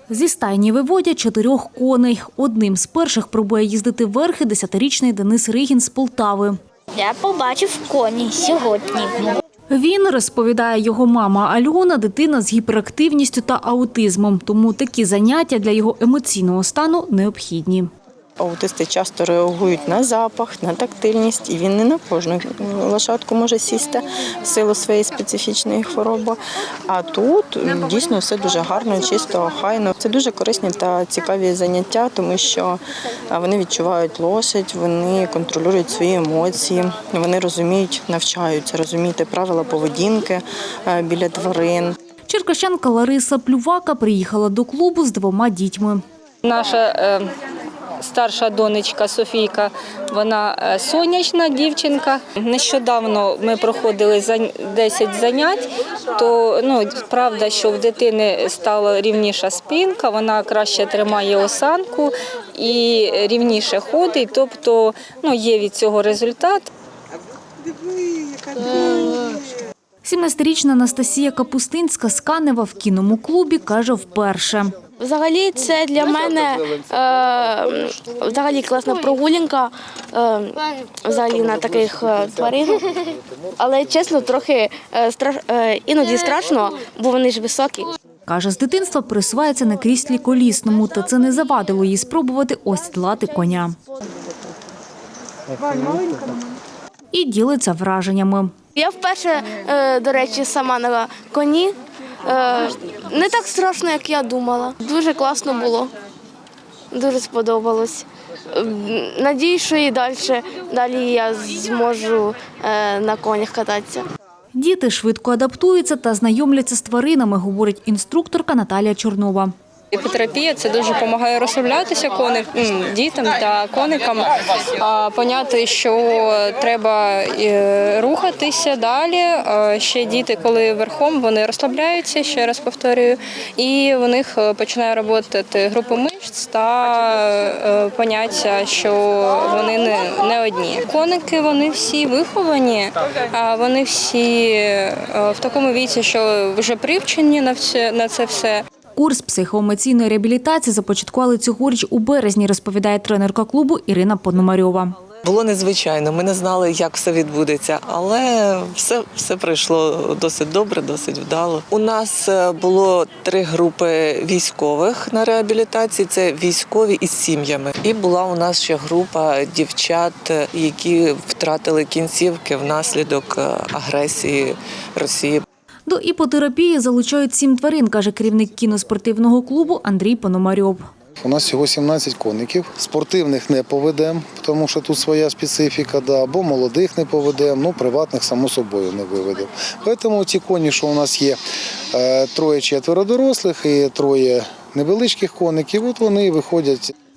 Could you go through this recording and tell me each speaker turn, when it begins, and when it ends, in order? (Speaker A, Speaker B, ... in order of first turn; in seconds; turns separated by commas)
Speaker A: 0.1-6.6, Speaker B: 7.0-9.3, Speaker A: 9.7-17.9, Speaker C: 18.4-32.8, Speaker C: 33.3-42.0, Speaker A: 42.3-46.0, Speaker D: 46.4-47.3, Speaker D: 48.0-66.7, Speaker A: 70.0-74.7, Speaker E: 75.0-83.0, Speaker F: 81.4-84.0, Speaker E: 83.6-87.9, Speaker A: 88.3-93.8, Speaker A: 97.1-98.5, Speaker E: 98.8-105.9, Speaker E: 106.9-114.0, Speaker A: 114.5-119.5, Speaker D: 119.9-148.7, Speaker A: 149.0-154.9, Speaker G: 155.2-175.4, Speaker A: 175.9-180.8, Speaker F: 181.2-191.4, Speaker F: 191.9-196.9